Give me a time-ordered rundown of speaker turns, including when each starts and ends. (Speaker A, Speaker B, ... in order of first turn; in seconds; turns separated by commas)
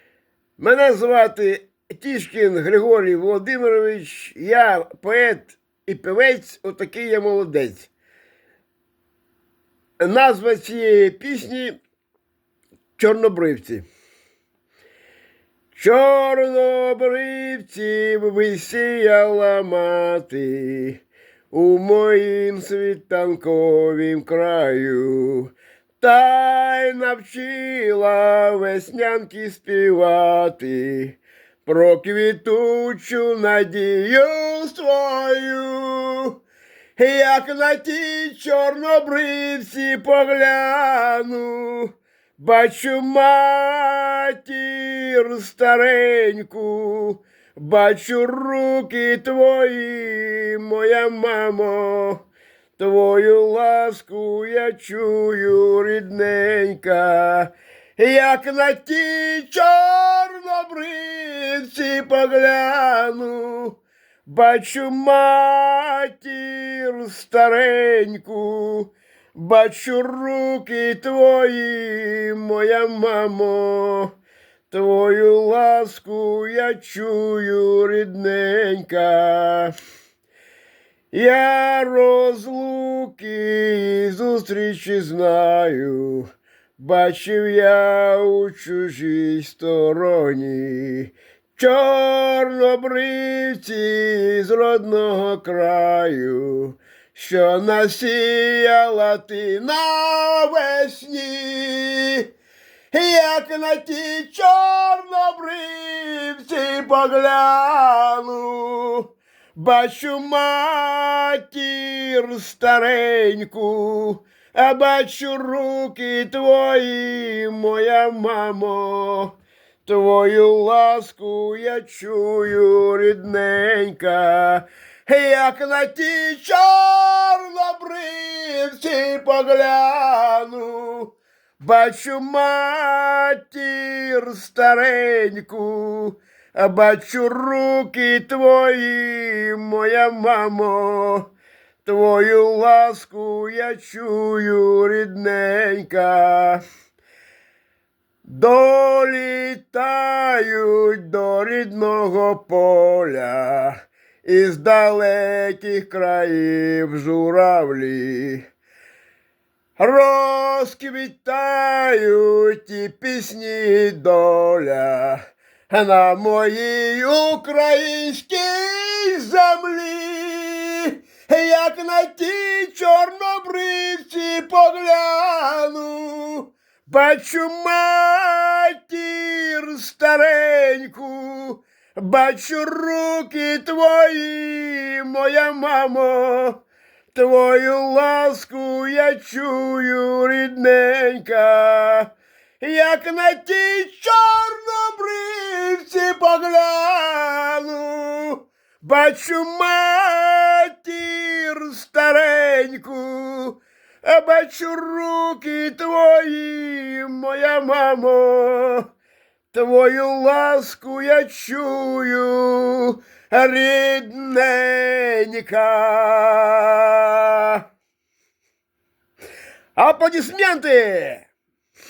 Speaker A: 0.6-7.9, Speaker A: 10.0-11.8, Speaker A: 13.0-13.9, Speaker A: 15.7-36.4, Speaker A: 37.0-52.2, Speaker A: 52.8-74.1, Speaker A: 74.7-79.7, Speaker A: 81.1-102.3, Speaker A: 102.9-141.3, Speaker A: 141.8-146.6, Speaker A: 148.2-158.4, Speaker A: 159.8-186.6, Speaker A: 187.1-208.9, Speaker A: 209.5-217.6, Speaker A: 219.8-221.3